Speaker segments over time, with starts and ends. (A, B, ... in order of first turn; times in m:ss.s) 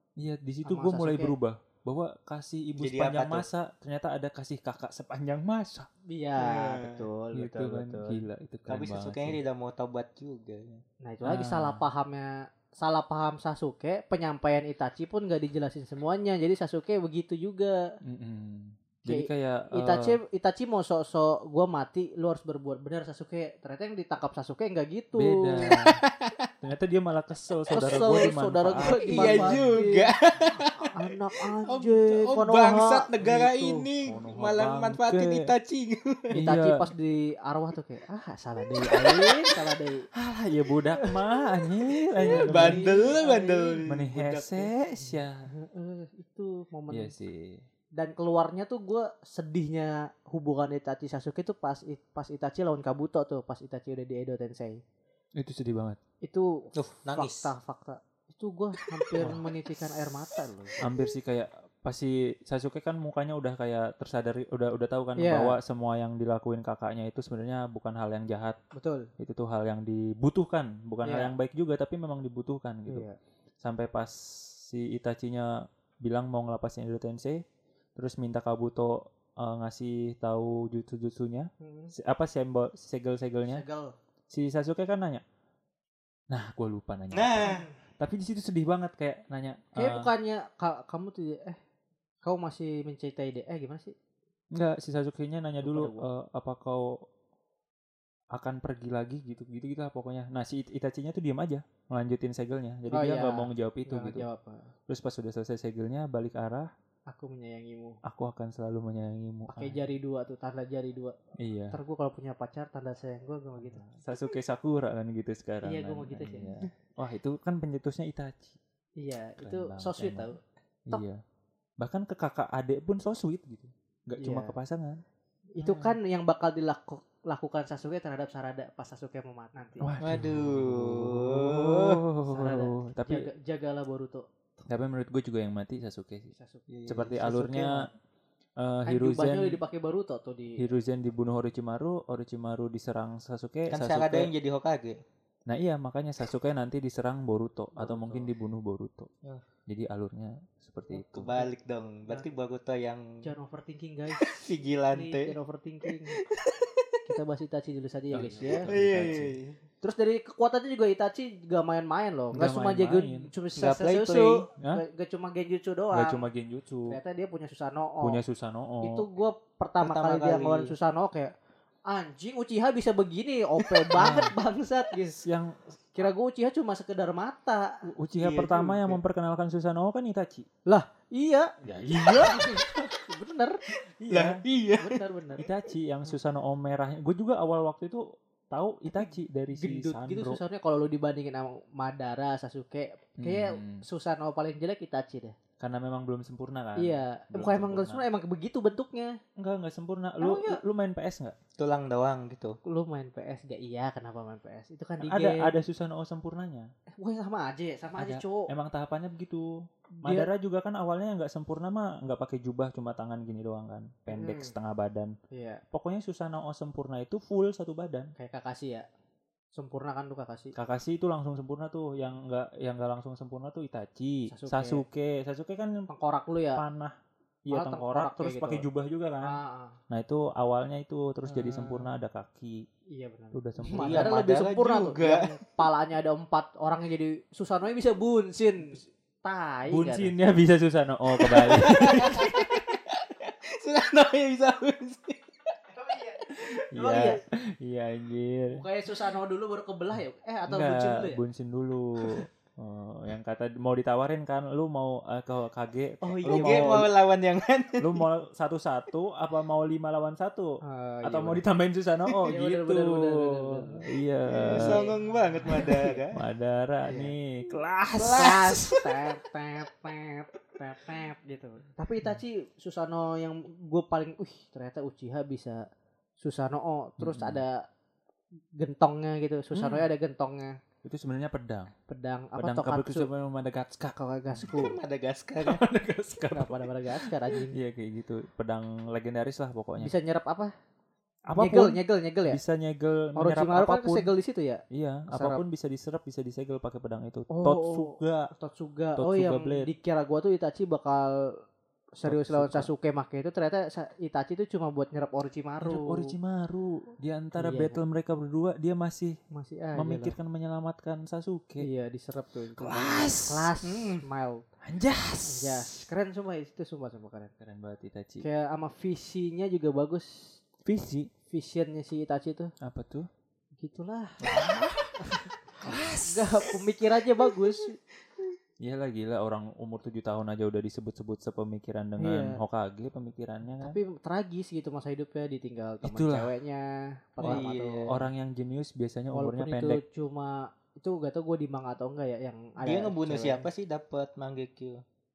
0:00.2-0:05.9 A
0:00.6-0:01.3 B
0:02.8-0:03.5 C
0:06.1-0:08.2 B
0:06.4-0:07.0 C
0:07.3-0:09.4 A
0:08.7-0:10.8 C
0:11.0-0:17.8 B
0:11.2-0:11.8 A
0:18.0-0:20.2 A
0:19.1-0:25.6 B
0:25.2-0:26.0 A
0:25.6-0:26.3 C
0:26.6-0:29.8 A
0:27.7-0:30.1 B
0:29.0-0:36.4 C
0:30.8-0:33.9 B
0:34.0-0:35.5 A
0:36.3-0:36.8 A
0:36.3-0:40.1 B
0:38.9-0:39.4 C
0:40.1-0:42.9 A
0:42.2-0:43.8 B
0:42.2-0:44.7 C
0:43.9-0:45.5 A
0:45.5-0:47.1 B
0:46.9-0:47.6 A
0:48.0-0:54.8 B
0:55.4-0:56.0 A
0:56.2-1:00.8 B
0:56.8-0:57.5 C
0:59.2-0:59.5 A
1:00.8-1:08.6 A
1:05.2-1:05.6 B
1:08.7-1:09.1 B
1:09.2-1:13.1 A
1:11.0-1:11.3 B
1:12.9-1:13.2 B
1:13.6-1:15.5 A
1:16.0-1:17.4 A
1:18.0-1:23.6 A
1:21.6-1:21.9 B
1:23.5-1:23.9 B
1:24.3-1:25.2 A
1:26.3-1:30.1 A
1:27.1-1:27.7 C
1:29.8-1:31.6 B
1:32.2-1:33.9 B
1:34.5-1:36.9 A
1:35.6-1:36.0 B
1:38.3-1:44.2 A
1:42.9-1:44.7 B
1:44.9-1:46.7 A
1:47.1-1:48.0 B
1:48.0-1:49.9 A
1:49.5-1:51.2 B
1:51.4-1:51.8 A
1:51.7-1:53.8 B
1:53.6-1:58.6 A
1:55.6-1:56.5 B
1:59.0-2:00.4 B
1:59.4-2:00.3 A
2:00.9-2:01.2 A
2:01.8-2:05.0 A
2:04.2-2:04.5 B
2:05.6-2:09.9 B
2:05.6-2:06.0 A
2:09.8-2:13.3 A
2:10.0-2:12.0 C
2:12.2-2:14.2 B
2:14.7-2:16.3 A
2:16.3-2:16.7 B
2:16.7-2:17.6 C
2:16.9-2:17.9 A
2:18.6-2:19.6 A
2:18.9-2:20.7 B
2:20.6-2:24.3 A
2:23.7-2:25.0 C
2:25.5-2:29.1 A
2:27.9-2:28.2 C
2:29.7-2:31.3 A
2:30.9-2:33.0 C
2:33.2-2:36.2 B
2:34.2-2:35.3 C
2:35.8-2:37.0 C
2:37.1-2:38.7 B
2:38.1-2:39.4 A
2:38.6-2:39.6 C
2:39.8-2:46.2 B
2:42.3-2:43.3 A
2:43.6-2:44.4 C
2:45.9-2:47.0 A
2:46.9-2:48.2 B
2:48.0-2:49.0 A
2:48.8-2:51.3 B
2:49.8-2:50.7 C
2:51.9-2:55.2 B
2:54.0-2:54.3 A
2:55.1-2:55.8 A
2:55.9-2:57.8 B
2:57.9-3:00.5 A
2:58.2-2:59.0 C
3:00.6-3:03.6 B
3:01.6-3:02.4 A
3:04.0-3:04.4 A
3:04.1-3:05.0 C
3:04.8-3:05.4 B
3:05.4-3:10.4 A
3:09.5-3:15.3 B
3:13.2-3:13.8 A
3:15.6-3:18.0 A
3:16.8-3:19.2 B
3:19.4-3:21.4 A
3:20.2-3:20.6 B
3:21.6-3:22.6 C
3:22.6-3:25.5 B
3:25.0-3:26.7 A
3:27.0-3:28.5 B
3:28.0-3:29.5 A
3:30.0-3:30.3 B
3:30.0-3:35.1 A
3:34.1-3:34.5 B
3:35.3-3:35.6 B
3:35.7-3:38.1 A
3:38.2-3:38.8 B
3:39.5-3:40.5 B
3:40.5-3:45.9 A
3:44.3-3:44.8 B
3:45.9-3:46.6 B
3:46.6-3:46.9 A
3:47.4-3:49.4 A
3:47.5-3:48.6 B
3:49.2-3:49.8 B
3:49.9-3:52.6 A
3:51.4-3:51.7 B
3:52.9-4:00.1 B
3:53.3-3:54.2 A
3:53.8-3:55.3 C
3:59.7-4:02.5 A
4:01.2-4:06.6 C
4:01.9-4:02.2 B
4:06.7-4:08.6 A
4:06.7-4:07.2 B
4:08.5-4:11.2 B
4:10.5-4:16.9 A
4:16.0-4:16.9 B
4:16.2-4:18.0 C
4:17.8-4:24.8 A
4:20.6-4:21.4 B
4:22.2-4:26.0 B
4:24.4-4:26.2 C
4:25.4-4:28.7 A
4:26.8-4:27.1 B
4:28.0-4:35.6 B
4:36.2-4:37.6 B
4:37.0-4:37.4 A
4:38.6-4:40.6 B
4:39.5-4:39.9 A
4:40.8-4:41.7 A
4:41.9-4:43.1 B
4:42.4-4:44.5 A
4:43.9-4:44.8 B
4:44.5-4:45.6 C
4:45.4-4:49.9 A
4:46.3-4:47.6 B
4:49.8-4:50.5 B
4:51.3-4:54.1 A
4:51.4-4:52.4 B
4:53.2-4:55.4 B
4:54.7-4:58.3 A
4:57.3-5:01.1 B
4:59.0-4:59.7 A
5:02.0-5:06.1 B
5:02.0-5:02.7 A
5:05.6-5:09.2 A
5:07.4-5:07.8 B
5:09.3-5:10.1 B
5:09.8-5:11.7 A
5:11.6-5:14.4 B
5:12.6-5:13.5 A
5:13.6-5:14.0 C
5:14.6-5:15.8 A
5:15.2-5:17.3 B
5:17.4-5:18.2 A
5:18.2-5:20.4 B
5:20.6-5:21.1 A
5:21.3-5:22.5 B
5:22.6-5:23.1 A
5:23.6-5:24.2 B
5:24.2-5:25.0 A
5:25.0-5:25.4 B
5:25.6-5:26.6 A
5:26.0-5:27.8 B
5:28.6-5:33.8 A
5:32.0-5:32.4 B
5:33.6-5:37.9 B
5:35.8-5:36.3 A
5:37.2-5:39.8 A
5:37.2-5:38.0 C
5:39.1-5:43.4 B
5:42.6-5:44.8 C